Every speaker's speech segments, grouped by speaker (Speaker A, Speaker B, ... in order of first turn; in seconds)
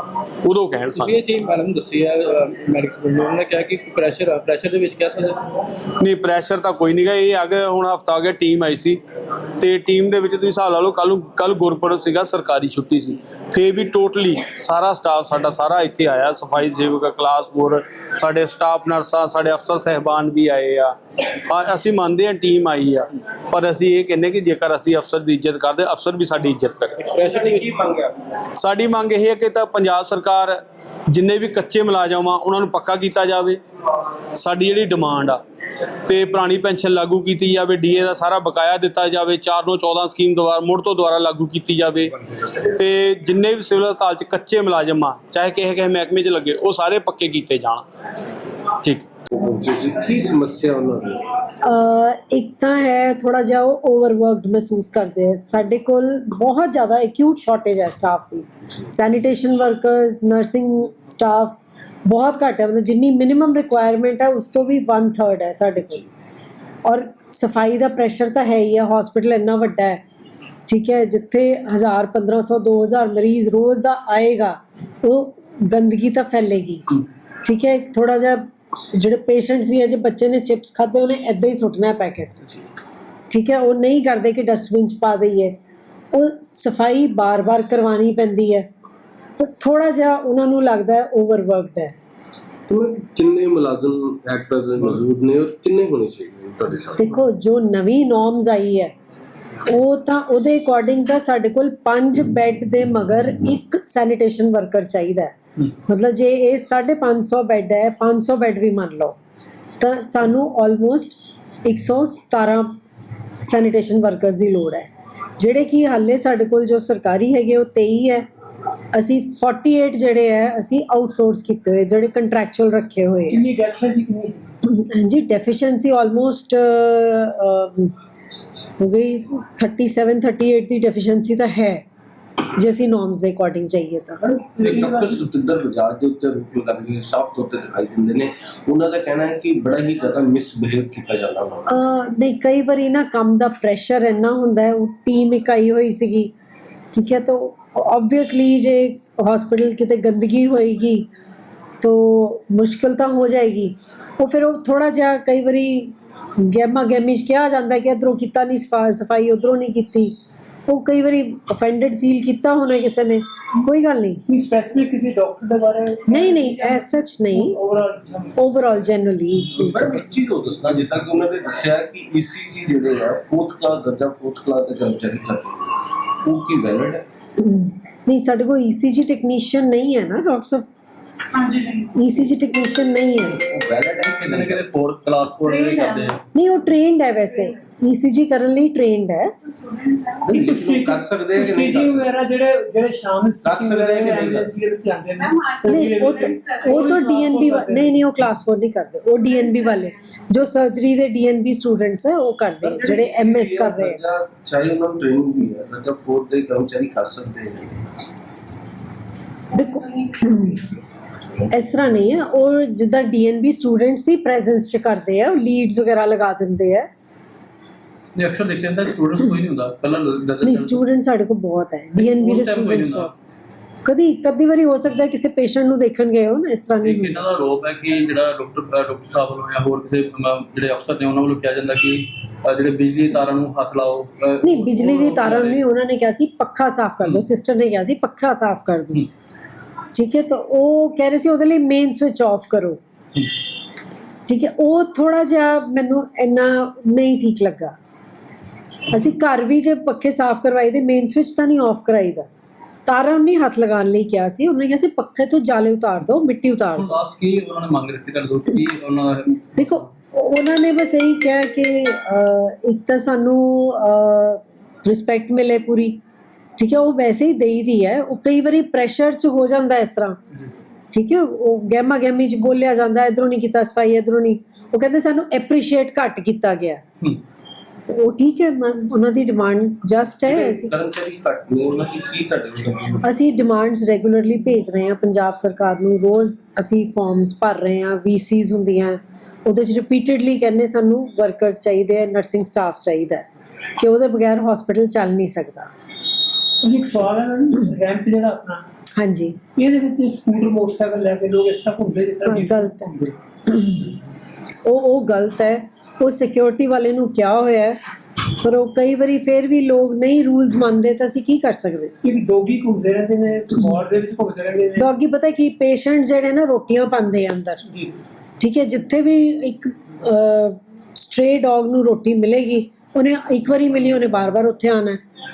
Speaker A: 0.4-1.2, 6.0-9.0, 9.6-27.1, 28.5-30.5, 31.1-33.6, 34.3-35.4, 36.1-47.8, 48.8-49.1
Speaker B: 0.9-5.4, 27.1-27.8, 184.0-186.2, 218.2-220.8, 222.0-223.2, 226.8-235.6, 256.7-259.9
Speaker C: 27.2-28.1, 49.3-51.2, 92.7-97.0, 134.5-141.7, 169.6-177.0, 183.3-184.6, 190.2-192.1, 193.4-194.5, 202.6-207.8, 280.2-283.1
Speaker D: 51.6-66.0, 66.8-70.0, 70.7-82.4, 83.3-85.5, 86.1-88.7, 89.4-91.9, 97.0-98.9, 99.7-105.3, 105.9-109.2, 109.8-112.7, 113.4-118.2, 118.9-123.4, 124.6-127.9, 128.8-131.8, 132.5-134.2, 141.7-146.3, 146.9-151.1, 151.8-160.2, 160.7-164.2, 166.1-167.6, 168.4-169.8, 177.4-180.7, 181.9-183.4, 186.3-189.3, 195.6-204.0, 209.5-210.7, 211.5-216.9, 220.4-223.1, 223.8-227.2, 234.4-239.0, 239.9-242.8, 244.3-247.8, 248.9-252.3, 252.8-256.9, 259.6-266.0, 266.6-270.2, 270.9-276.8, 277.9-280.7, 283.0-295.7, 299.0-299.4, 302.2-302.9, 303.5-303.9, 304.6-307.8, 308.4-311.9, 314.8-317.6, 318.4-325.0
Speaker E: 123.3-124.4, 134.5-135.2, 164.3-168.3, 190.3-198.0, 296.6-298.6, 299.5-303.1, 312.0-314.9